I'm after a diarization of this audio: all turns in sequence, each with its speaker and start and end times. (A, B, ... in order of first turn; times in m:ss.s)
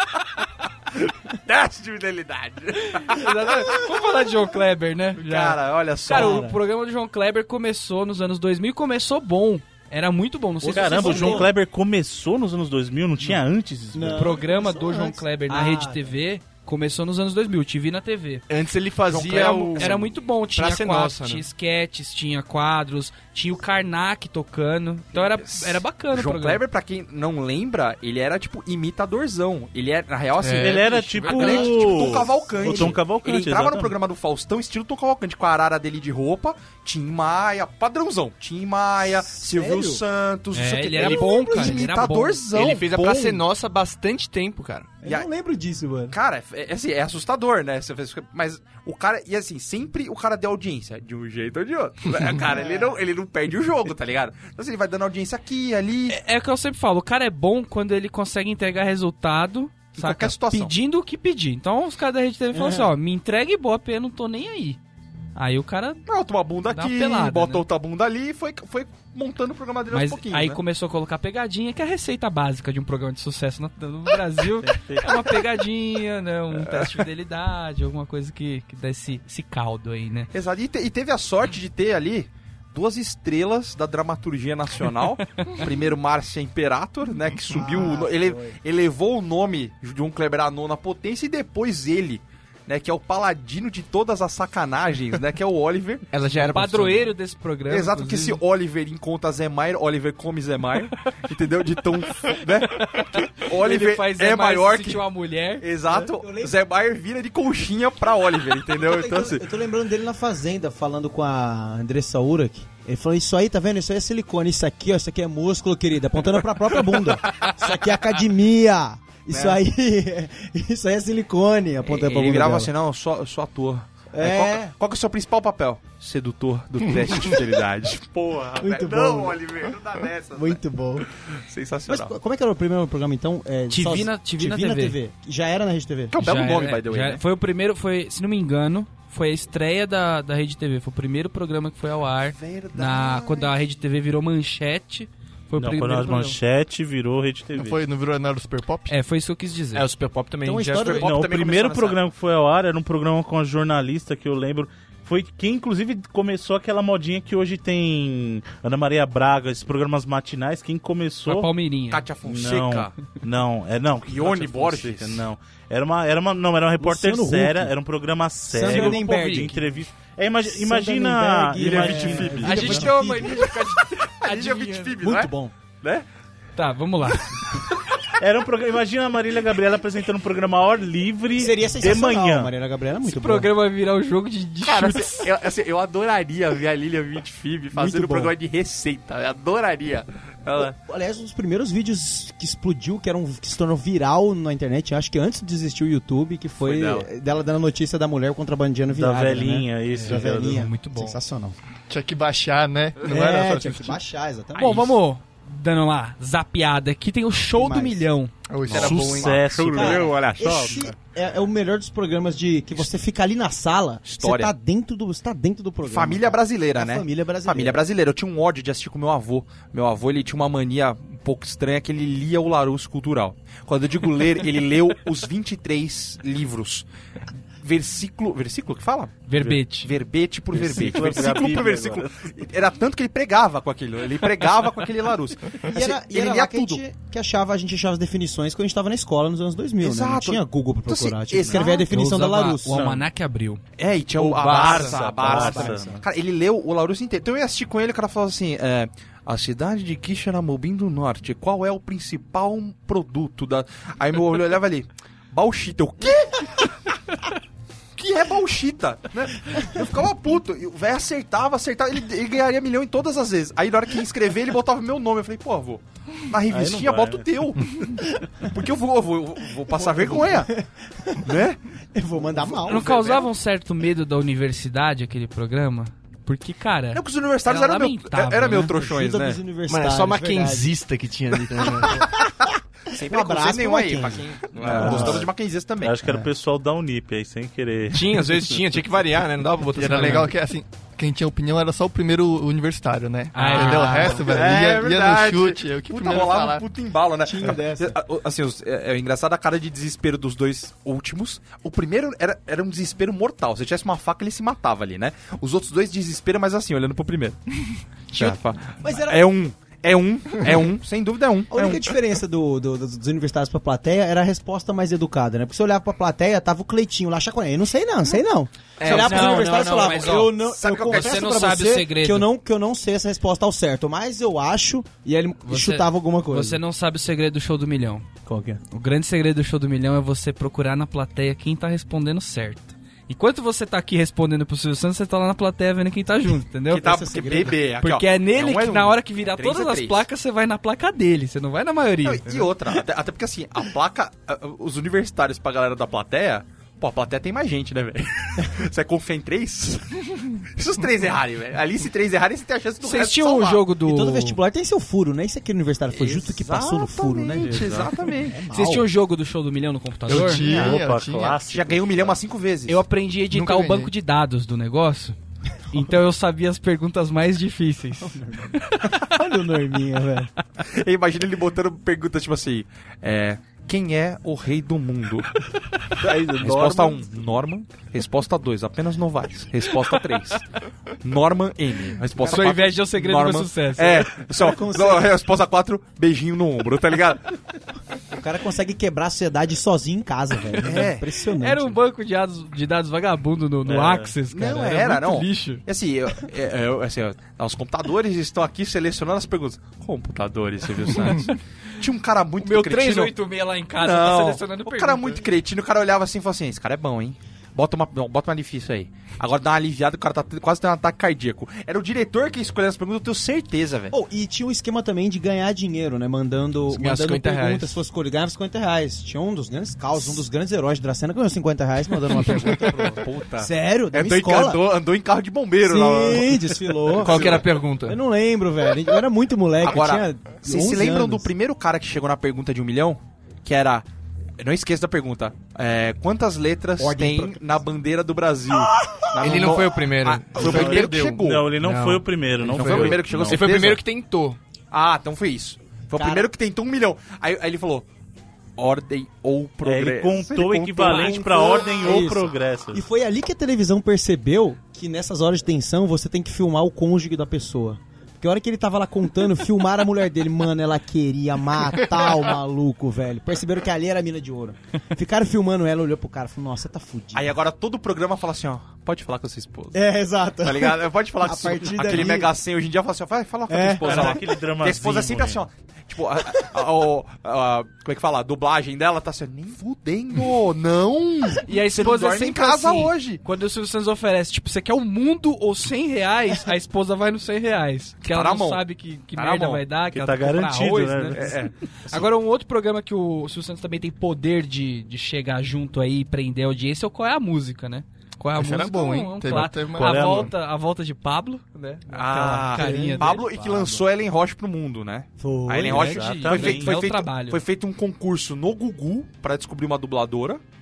0:01.2-0:03.7 A
0:02.8-0:11.5 B
0:05.2-0:06.4 A
0:06.1-0:06.6 C
0:10.6-0:11.5 C
0:10.7-0:14.3 D
0:13.9-0:16.1 C
0:14.1-0:18.4 B
0:18.5-0:21.4 E
0:19.1-0:20.0 A
0:19.4-0:26.6 B
0:25.1-0:43.4 A
0:30.4-0:31.8 E
0:30.6-0:33.9 D
0:31.4-0:31.8 C
0:32.6-0:33.0 C
0:39.1-0:40.0 C
0:40.5-0:42.4 B
0:41.0-0:41.9 C
0:42.5-0:44.9 E
0:45.0-0:46.2 C
0:46.1-0:56.2 A
0:52.4-0:53.0 C
0:56.1-1:04.8 B
1:00.0-1:00.8 A
1:02.5-1:02.9 C
1:05.4-1:06.0 B
1:06.1-1:10.6 A
1:06.7-1:07.6 B
1:09.9-1:20.3 B
1:14.6-1:15.3 D
1:16.6-1:16.9 A
1:20.3-1:36.1 A
1:27.5-1:28.6 C
1:36.1-1:37.1 E
1:36.4-1:38.4 B
1:37.7-1:45.0 A
1:42.8-1:45.7 B
1:45.6-1:49.4 A
1:45.9-1:46.6 C
1:48.8-2:02.7 C
1:59.3-1:59.6 A
2:01.8-2:12.2 A
2:04.1-2:04.7 C
2:08.6-2:09.4 C
2:10.3-2:11.1 C
2:11.9-2:16.2 C
2:13.7-2:15.0 B
2:16.1-2:17.2 A
2:16.2-2:26.4 B
2:22.2-2:23.6 A
2:25.6-2:27.8 D
2:27.5-2:28.9 F
2:28.9-2:29.9 B
2:29.7-2:31.1 E
2:30.4-2:31.1 C
2:30.9-2:32.0 A
2:31.0-2:41.5 D
2:41.3-2:42.0 B
2:41.9-2:43.0 A
2:42.2-2:52.9 D
2:44.1-2:45.2 A
2:46.8-2:47.7 C
2:48.5-2:49.7 C
2:50.4-2:53.5 C
2:51.6-2:53.5 A
2:52.4-2:54.9 B
2:54.1-2:56.1 A
2:55.0-2:55.5 C
2:56.6-2:57.6 B
2:58.2-3:02.5 D
3:01.4-3:03.5 C
3:03.0-3:05.3 B
3:04.7-3:10.8 A
3:07.7-3:08.3 C
3:10.8-3:21.6 C
3:16.6-3:17.1 A
3:18.9-3:20.7 D
3:20.0-3:21.2 B
3:20.0-3:20.4 F
3:21.9-3:24.0 F
3:23.1-3:24.9 C
3:24.6-3:28.3 B
3:24.6-3:24.9 A
3:27.6-3:28.1 C
3:28.5-3:29.4 F
3:28.7-3:30.9 D
3:28.7-3:30.9 A
3:28.7-3:29.5 E
3:29.7-3:37.8 C
3:34.1-3:34.5 A
3:35.8-3:46.8 A
3:47.6-3:49.2 A
3:49.3-3:49.9 B
3:49.4-3:49.6 D
3:49.8-3:56.8 A
3:50.5-3:52.3 D
3:55.7-4:02.9 C
3:59.8-4:01.8 A
4:01.7-4:03.6 B
4:02.7-4:03.0 D
4:03.8-4:16.7 A
4:04.2-4:05.1 E
4:04.2-4:06.0 D
4:05.1-4:06.0 C
4:18.0-4:27.7 A
4:26.5-4:27.3 D
4:28.4-4:30.5 A
4:29.7-4:31.4 C
4:31.2-4:31.6 A
4:31.9-4:32.9 C
4:32.6-4:33.3 A
4:32.7-4:38.7 B
4:36.9-4:39.4 A
4:38.7-4:40.7 C
4:39.7-4:42.1 E
4:41.7-4:45.3 C
4:42.9-4:46.0 A
4:44.6-4:45.2 E
4:44.6-4:45.3 D
4:45.8-4:48.6 D
4:47.9-4:50.3 E
4:49.7-4:56.6 F
4:53.3-4:54.2 B
4:53.6-5:07.4 A
4:57.2-4:58.0 C
5:08.1-5:11.9 A
5:08.2-5:09.3 C
5:11.5-5:26.6 C
5:18.8-5:20.2 E
5:18.8-5:22.3 B
5:20.4-5:21.3 A
5:25.4-5:28.1 B
5:28.3-5:28.6 C
5:28.7-5:36.8 B
5:36.7-5:40.1 A
5:36.7-5:37.6 C
5:37.8-5:42.6 B
5:42.0-5:53.7 A
5:52.8-5:54.4 B
5:53.8-5:58.9 C
5:55.9-5:58.4 A
5:57.4-5:58.0 D
5:58.5-6:00.5 B
6:00.1-6:01.4 F
6:00.1-6:02.1 D
6:00.4-6:00.8 A
6:01.4-6:02.8 A
6:02.7-6:05.2 B
6:03.3-6:03.9 F
6:05.7-6:09.0 B
6:08.9-6:10.3 C
6:10.6-6:15.4 A
6:16.0-6:17.0 D
6:16.4-6:20.4 A
6:21.0-6:27.3 A
6:22.2-6:24.1 B
6:24.3-6:25.1 C
6:28.1-6:31.8 C
6:30.6-6:31.1 A
6:31.4-6:35.6 B
6:33.7-6:34.1 D
6:34.3-6:43.1 A
6:42.4-6:45.2 B
6:43.8-6:54.0 A
6:53.9-7:04.7 C
6:56.7-6:57.8 E
7:02.2-7:07.5 A
7:05.6-7:11.3 C
7:07.0-7:08.0 E
7:09.6-7:13.9 A
7:14.4-7:21.5 A
7:16.8-7:17.4 C
7:19.2-7:24.4 E
7:20.4-7:23.4 D
7:22.5-7:23.8 A
7:24.7-7:27.9 A
7:26.0-7:26.3 C
7:28.6-7:31.2 A
7:29.6-7:32.8 D
7:30.6-7:47.3 C
7:47.1-7:49.8 A
7:49.7-7:52.3 C
7:50.4-8:03.2 A
7:53.5-7:54.2 C
7:53.8-7:55.4 D
8:01.4-8:11.3 B
8:08.0-8:08.6 A
8:09.1-8:09.6 A
8:09.9-8:11.4 D
8:11.1-8:12.0 A
8:11.9-8:23.2 B
8:18.4-8:20.3 F
8:19.3-8:20.3 D
8:21.9-8:30.4 A
8:22.5-8:23.9 C
8:25.2-8:25.9 C
8:25.7-8:26.8 D
8:25.7-8:27.4 B